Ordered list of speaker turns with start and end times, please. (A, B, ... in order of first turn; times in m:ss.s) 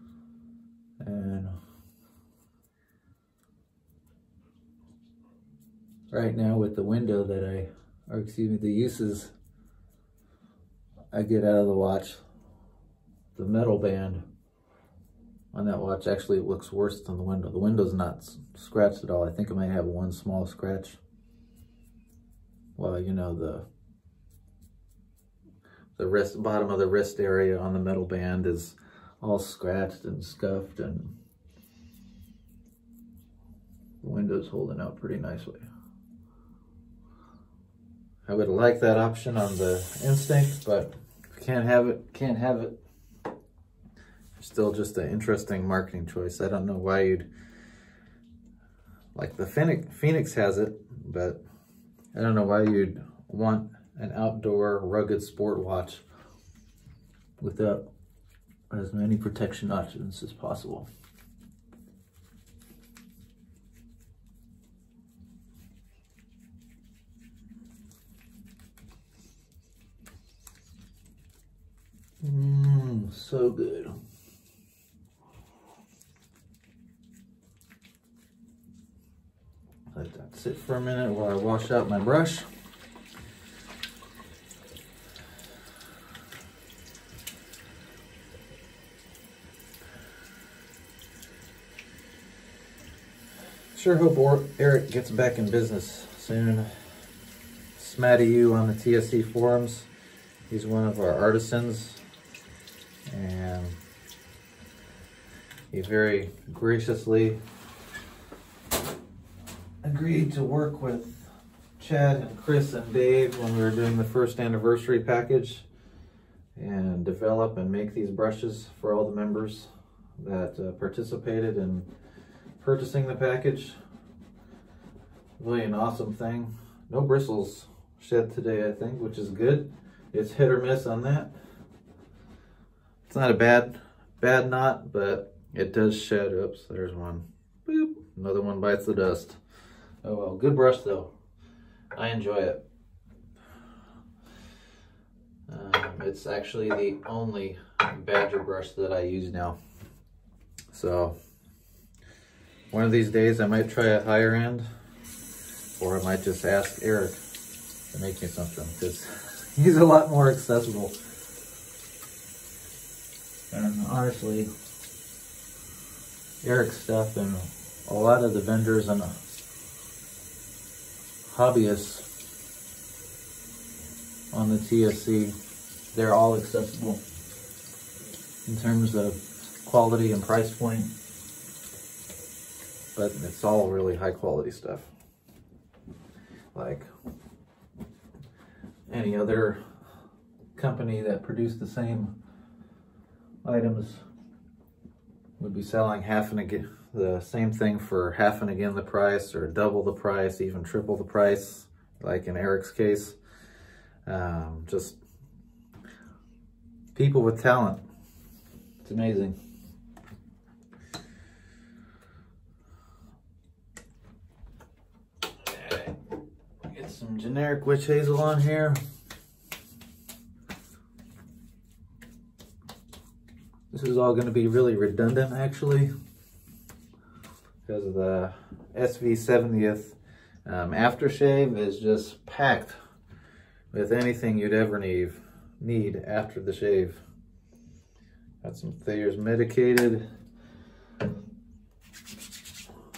0:01.0-0:01.5 A
0:06.1-0:09.3 A
0:11.1-0:12.2 A
0:13.3-0:14.2 A
0:15.5-0:21.0 A
0:22.8-0:23.6 A
0:26.0-0:31.1 A
0:34.0-0:35.6 A
0:38.2-0:42.8 A
0:44.4-0:47.3 A
0:49.1-0:51.4 A
0:52.1-0:56.0 A
0:57.4-0:57.8 A
0:58.7-1:00.9 A
1:12.2-1:14.0 A
1:19.9-1:22.5 A
1:33.7-1:36.8 A
1:37.8-1:39.9 A
1:40.5-1:42.0 A
1:43.1-1:43.8 A
1:45.7-1:47.4 A
1:49.8-1:55.6 A
1:56.6-2:01.9 A
2:02.6-2:03.8 A
2:05.4-2:11.3 A
2:13.1-2:19.4 A
2:20.0-2:21.1 A
2:21.9-2:22.6 A
2:25.5-2:29.6 A
2:30.7-2:31.1 A
2:32.7-2:34.6 A
2:35.8-2:37.2 A
2:37.9-2:41.0 A
2:43.5-2:44.5 A
2:46.4-2:49.2 A
2:51.3-2:52.1 A
2:54.3-2:55.3 A
2:55.9-2:57.0 A
2:58.4-3:00.9 A
3:02.9-3:04.9 A
3:06.5-3:06.9 A
3:08.9-3:09.6 A
3:10.5-3:12.1 A
3:13.4-3:14.0 A
3:15.4-3:23.2 A
3:24.0-3:25.0 A
3:26.9-3:27.8 A
3:28.8-3:29.3 A
3:35.4-3:35.9 A
3:36.7-3:38.8 A
3:43.7-3:45.9 A
3:47.6-3:52.7 A
3:53.7-3:57.0 A
3:58.4-4:00.0 A